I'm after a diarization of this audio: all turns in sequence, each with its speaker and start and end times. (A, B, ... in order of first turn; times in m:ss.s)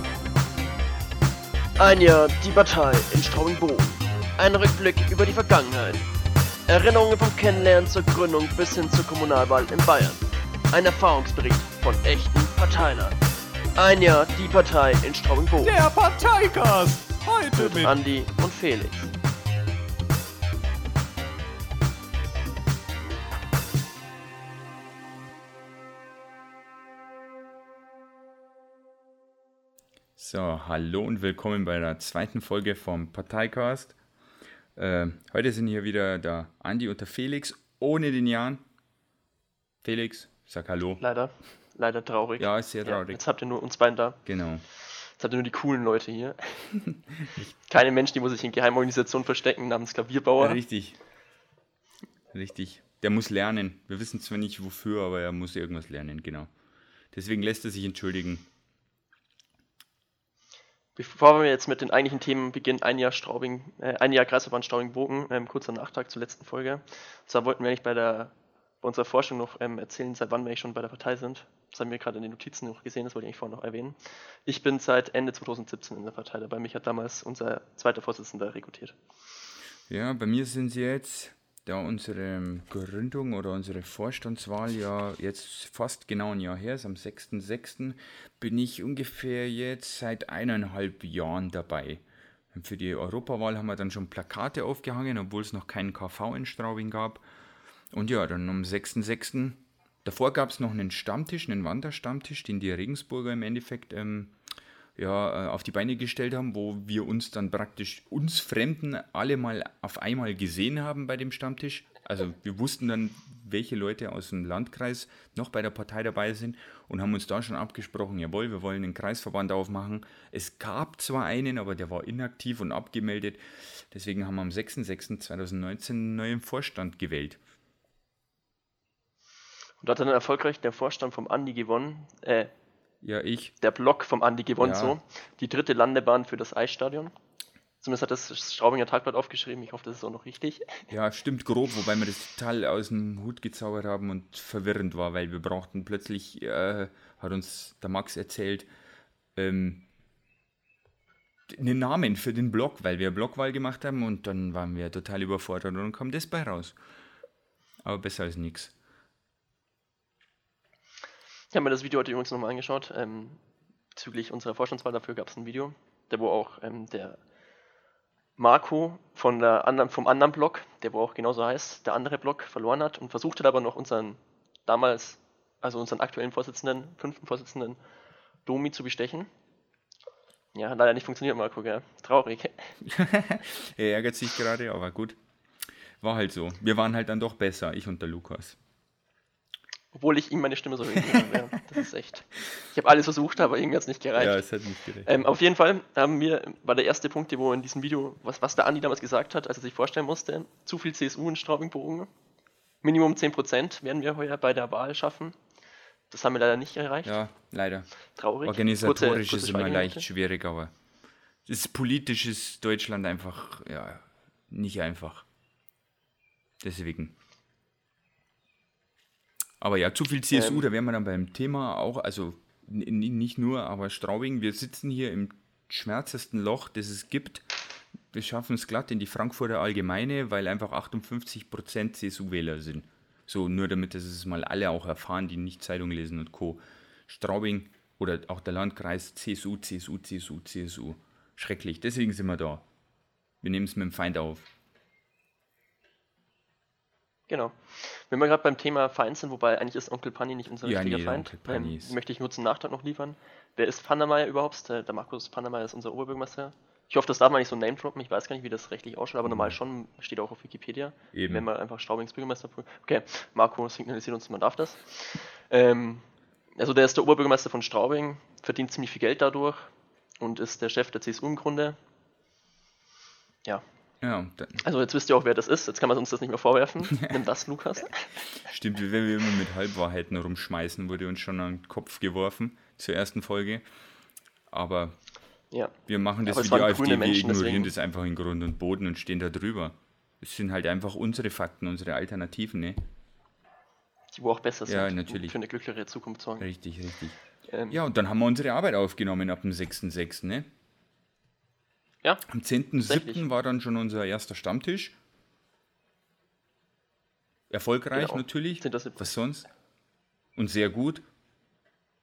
0:01.8-0:06.0 A
0:06.7-0:10.2 A
0:10.7-0:13.2 A
0:13.8-0:15.7 A
0:15.6-0:18.0 B
0:17.6-0:19.1 A
0:30.2-0:34.0 C
0:34.8-0:38.6 C
0:39.8-0:41.0 C
0:41.0-0:44.2 A
0:42.4-0:43.2 C
0:44.3-0:44.6 C
0:45.2-0:46.7 A
0:47.2-0:47.5 C
0:47.7-0:50.6 A
0:50.4-0:51.0 C
0:52.3-0:56.5 C
0:57.1-0:58.5 C
1:01.0-1:19.0 A
1:19.9-1:37.2 C
1:37.9-1:44.4 C
1:45.0-2:07.4 C
2:09.8-2:12.5 A
2:13.0-2:13.5 C
2:13.6-2:17.1 A
2:14.6-2:15.0 C
2:17.8-2:20.9 A
2:20.9-2:28.7 C
2:29.4-2:29.8 C
2:31.5-2:36.8 C
2:37.8-2:38.7 C
2:41.5-2:43.4 A
2:44.0-2:47.2 A
2:48.4-2:57.8 A
2:58.5-2:59.3 A
3:00.5-3:02.7 A
3:02.8-3:05.2 C
3:06.0-3:08.6 C
3:09.9-3:14.4 A
3:11.1-3:11.4 C
3:14.2-3:15.2 C
3:15.1-3:22.1 A
3:22.8-3:25.4 A
3:26.1-3:27.2 A
3:27.0-3:27.9 C
3:28.2-3:30.0 A
3:28.4-3:30.7 C
3:31.5-3:35.2 C
3:36.6-3:37.1 C
3:39.6-3:47.5 C
3:40.3-3:40.6 A
3:48.1-4:02.6 C
4:03.4-4:04.5 C
4:07.3-4:26.0 A
4:10.6-4:12.0 C
4:19.3-4:19.6 C
4:21.1-4:21.5 C
4:26.6-4:31.8 A
4:34.0-4:34.6 C
4:34.6-4:38.1 A
4:38.4-4:43.6 C
4:44.5-4:45.0 C
4:45.9-4:52.8 C
4:46.2-4:47.7 A
4:54.1-4:56.5 A
4:54.7-4:55.4 C
4:56.4-4:57.2 C
4:57.5-4:57.8 A
4:57.7-5:00.5 C
5:02.3-5:05.0 C
5:02.8-5:03.2 A
5:07.5-5:09.5 C
5:07.9-5:09.1 A
5:10.4-5:11.0 C